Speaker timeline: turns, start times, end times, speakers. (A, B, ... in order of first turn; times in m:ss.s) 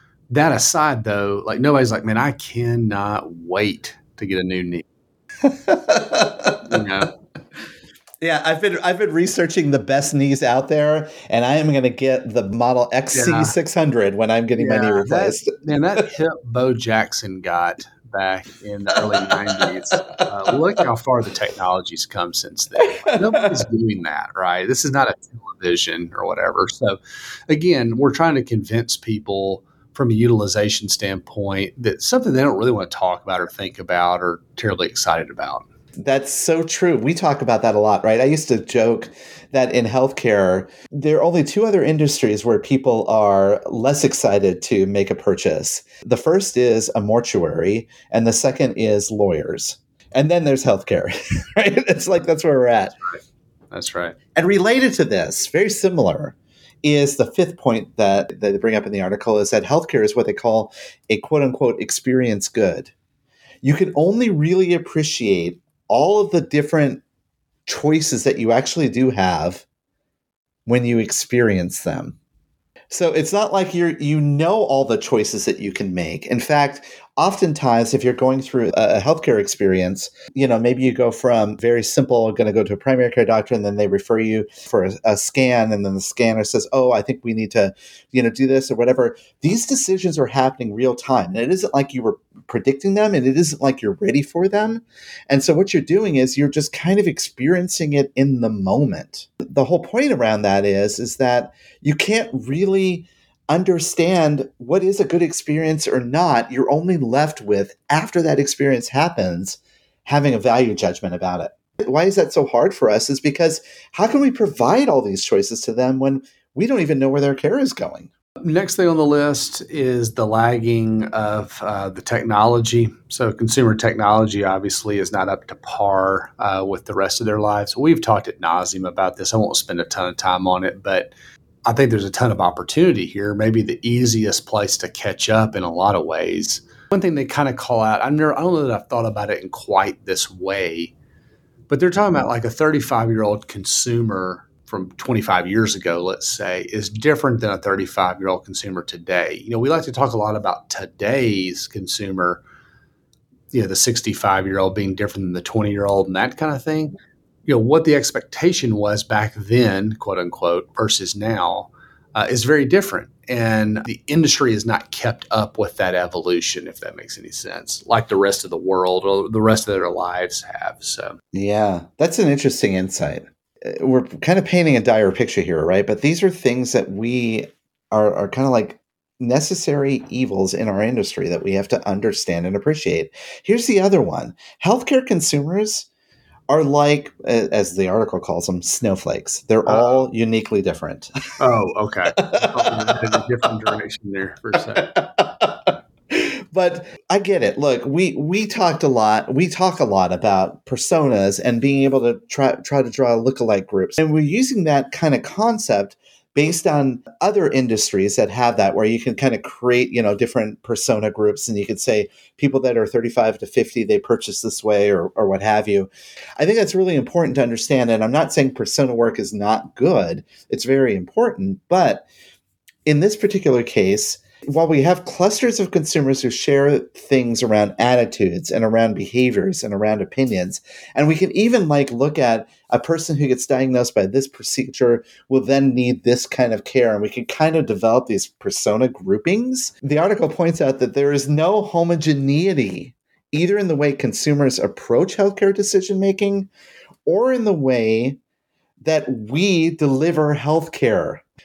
0:00.3-0:04.9 A
0:05.4-0:06.8 B
0:06.6-0:07.1 A
0:08.2-0:15.5 B
0:13.1-0:13.5 A
0:14.6-0:27.0 A
0:19.1-0:19.6 B
0:23.0-0:23.6 B
0:27.5-0:35.6 A
0:36.0-0:53.0 B
0:53.7-0:54.2 A
0:54.4-1:02.9 B
1:03.6-1:07.0 B
1:07.7-1:09.6 B
1:10.7-1:12.2 B
1:12.9-1:58.1 B
1:58.4-2:11.1 A
2:11.7-2:20.9 A
2:21.7-2:32.4 A
2:33.5-2:36.9 A
2:37.5-2:51.2 A
2:51.3-3:05.9 B
3:06.5-3:11.3 B
3:09.7-3:10.0 A
3:11.4-3:14.9 A
3:12.2-3:13.2 B
3:14.8-3:42.0 B
3:42.9-4:06.5 B
4:07.1-4:08.2 B
4:08.8-4:11.2 B